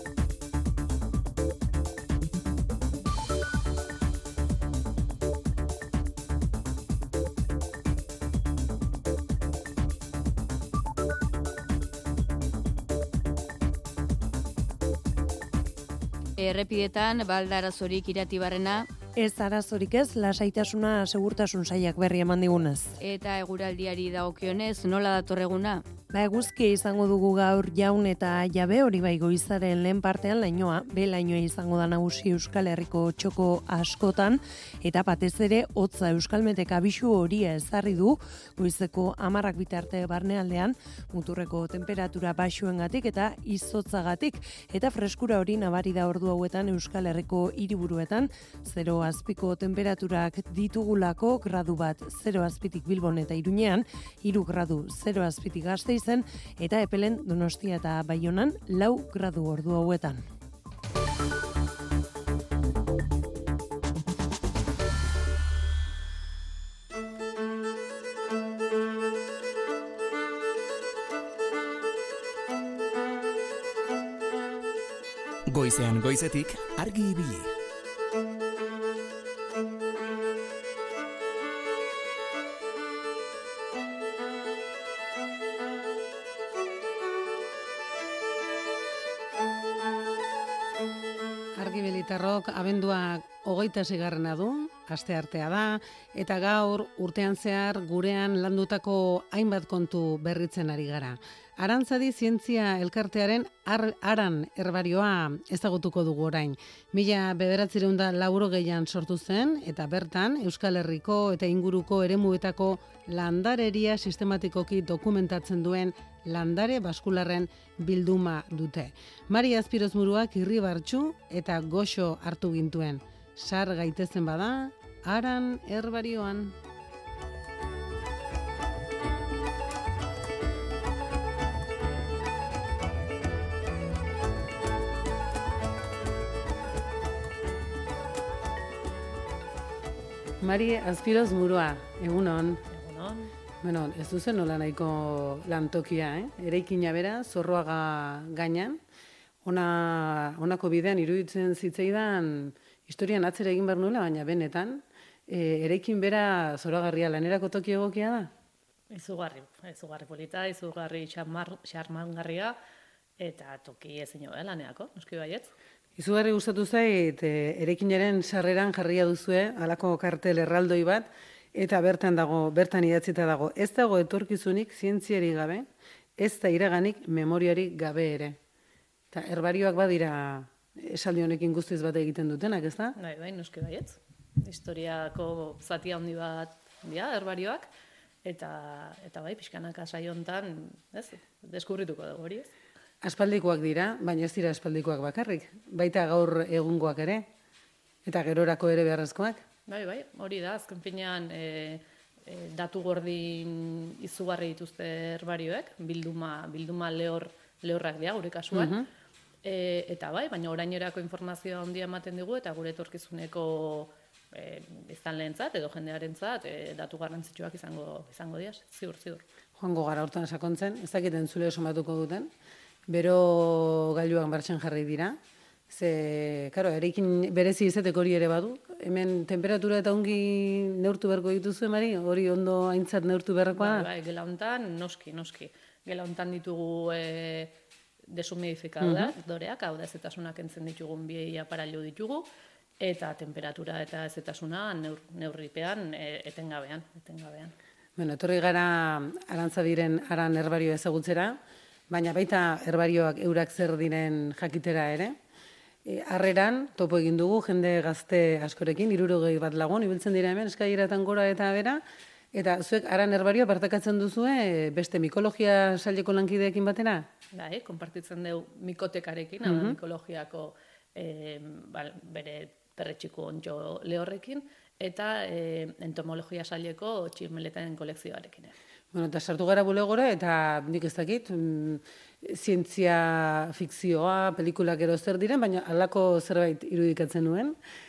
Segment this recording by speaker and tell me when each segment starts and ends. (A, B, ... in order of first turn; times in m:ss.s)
0:16.4-0:18.9 A
0:19.2-0:23.0 B
0:23.0-0:25.8 A
0:26.1-1:00.2 B
1:15.5-1:17.5 C
1:31.6-2:06.6 D
2:20.4-2:22.6 D
2:22.7-2:23.3 E
2:23.6-2:28.8 D
2:29.4-2:38.3 D
2:38.9-2:42.6 E
2:43.2-2:45.5 E
2:46.0-2:55.7 D
2:56.2-2:58.4 D
2:59.1-3:02.9 D
3:03.0-3:07.7 E
3:08.2-3:12.5 E
3:13.0-3:17.3 D
3:18.1-3:19.4 D
3:19.7-3:28.8 E
3:28.5-3:28.8 D
3:29.4-3:39.2 E
3:39.6-3:42.3 D
3:42.9-3:45.2 D
3:45.7-3:53.9 D
3:53.6-3:57.5 E
3:58.1-4:02.3 E
3:58.8-3:59.1 D
4:02.8-4:07.5 E
4:08.0-4:11.4 D
4:11.9-4:15.2 D
4:15.9-4:21.8 D
4:22.3-4:27.1 D
4:27.3-4:38.5 E
4:29.4-4:29.8 D
4:38.9-4:47.6 D